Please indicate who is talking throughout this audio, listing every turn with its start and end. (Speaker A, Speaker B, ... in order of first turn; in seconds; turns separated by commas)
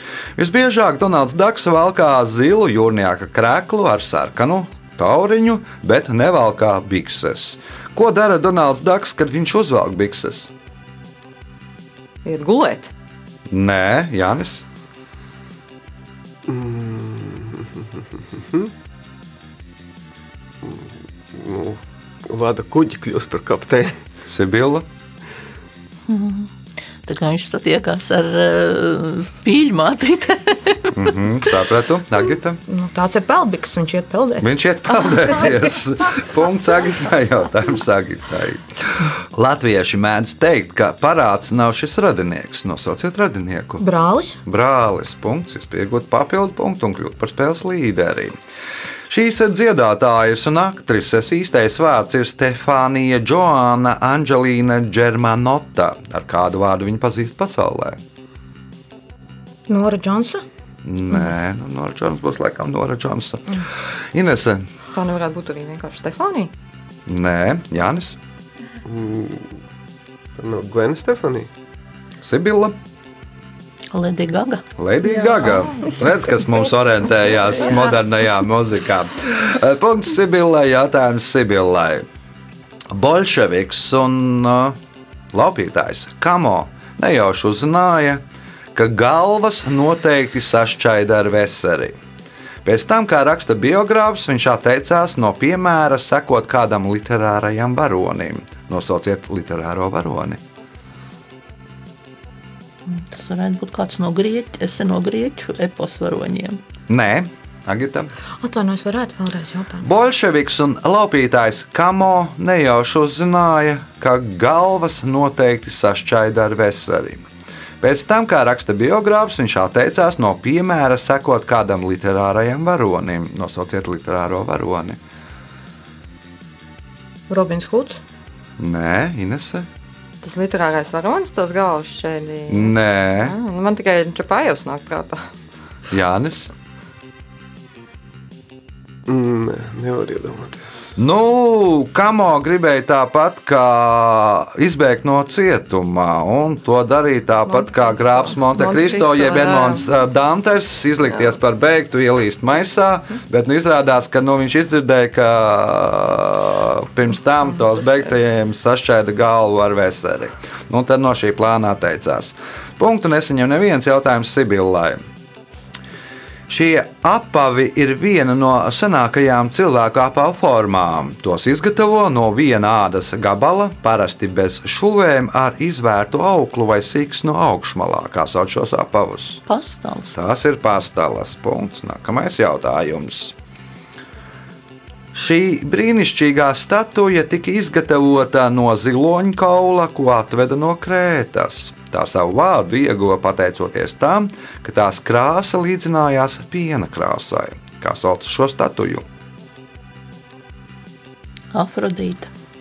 Speaker A: 0.4-10.5, Speaker B: 12.2-12.9, Speaker A: 13.5-14.6, Speaker C: 16.5-18.7, Speaker C: 20.6-24.0, Speaker A: 24.3-24.9, Speaker D: 26.1-26.5, Speaker D: 27.0-31.0, Speaker A: 30.9-32.6, Speaker E: 32.7-34.5, Speaker A: 34.4-43.8, Speaker E: 43.8-44.4, Speaker A: 44.5-48.4, Speaker A: 49.1-58.0, Speaker E: 59.7-60.4, Speaker A: 60.8-64.7, Speaker B: 64.9-66.5, Speaker A: 67.1-68.2, Speaker C: 68.8-69.5, Speaker C: 70.4-71.5, Speaker A: 72.2-72.8, Speaker D: 73.9-74.7, Speaker A: 74.8-82.1, Speaker A: 82.9-84.8, Speaker A: 85.3-88.2, Speaker A: 88.7-92.0, Speaker A: 92.6-100.4, Speaker D: 102.9-106.6, Speaker A: 106.9-108.1, Speaker E: 108.4-109.9, Speaker A: 109.8-117.2, Speaker A: 117.8-125.0, Speaker E: 127.3-128.0, Speaker A: 128.6-129.7, Speaker B: 130.2-135.3, Speaker A: 132.5-133.4, Speaker A: 135.9-136.5, Speaker C: 139.1-140.7, Speaker A: 141.0-165.0, Speaker B: 147.5-149.9, Speaker A: 166.5-179.4, Speaker D: 179.5-180.2, Speaker A: 180.1-183.4, Speaker A: 185.1-199.1, Speaker D: 201.5-202.3